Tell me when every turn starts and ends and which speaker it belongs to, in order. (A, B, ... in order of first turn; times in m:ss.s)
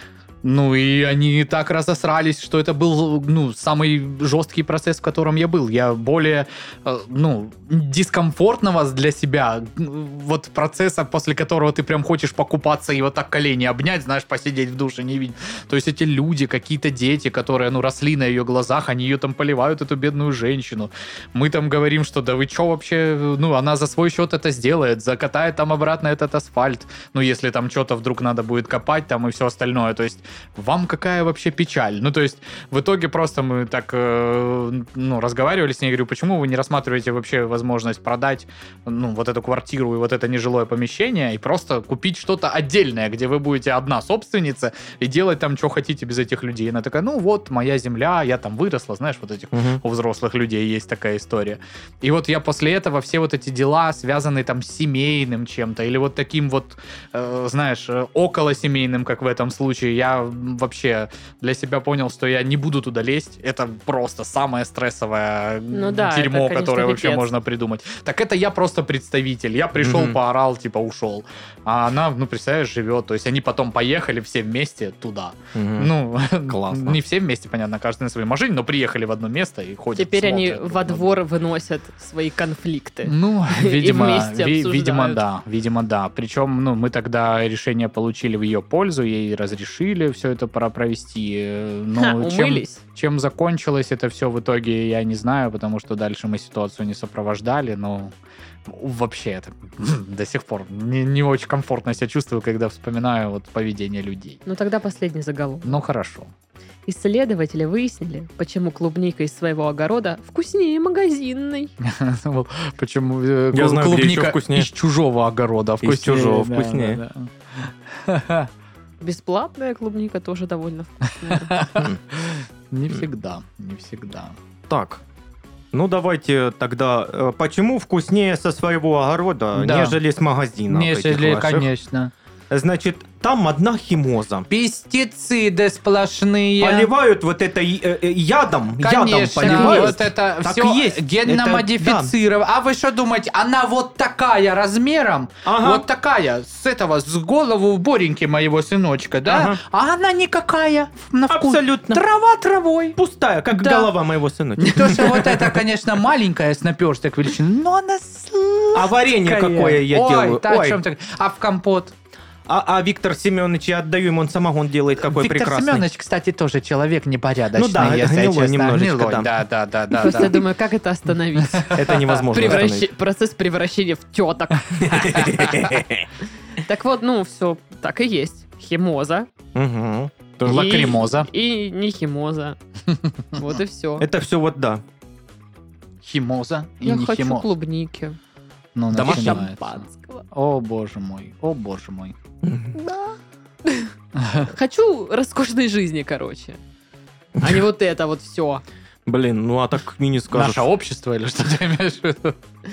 0:00.4-1:21.2 A
0:49.5-0:49.8 B
1:05.7-1:07.3 C
1:09.8-1:10.2 B
1:15.5-1:17.0 B
1:19.9-1:25.2 C
1:23.0-1:38.1 A
1:32.0-1:32.8 C
1:38.6-1:44.4 A
1:44.4-1:45.8 C
1:45.6-1:46.3 A
1:46.9-1:51.7 C
1:51.8-1:58.5 A
1:53.5-1:54.7 B
1:55.8-1:57.0 B
1:59.0-2:01.6 C
2:01.5-2:04.4 A
2:04.7-2:05.0 B
2:05.7-2:11.7 B
2:09.5-2:10.0 A
2:10.7-2:12.1 A
2:12.5-2:14.5 B
2:14.5-2:16.9 A
2:16.6-2:22.1 B
2:18.8-2:33.0 A
2:19.4-2:20.0 C
2:25.4-2:25.8 B
2:29.2-2:29.6 B
2:31.3-2:32.0 B
2:33.0-2:35.5 B
2:33.5-2:33.9 A
2:34.6-2:41.9 A
2:38.7-2:40.8 B
2:42.5-2:45.8 B
2:45.0-2:50.4 A
2:47.5-2:49.3 B
2:50.0-2:51.8 C
2:51.4-2:52.2 A
2:51.7-2:52.9 B
2:52.3-2:55.4 C
2:54.8-2:56.1 B
2:55.1-2:55.5 A
2:56.5-2:59.3 C
2:59.5-3:00.6 B
3:00.4-3:01.3 A
3:00.4-3:02.6 C
3:02.9-3:03.4 A
3:03.3-3:04.1 C
3:04.0-3:04.8 B
3:06.0-3:07.5 A
3:06.8-3:08.2 C
3:08.7-3:12.2 A
3:08.9-3:09.5 B
3:09.0-3:10.2 C
3:12.4-3:12.7 B
3:12.8-3:13.9 C
3:14.1-3:14.5 A
3:14.5-3:16.6 C
3:17.4-3:18.6 C
3:19.0-3:20.7 B
3:20.3-3:22.4 A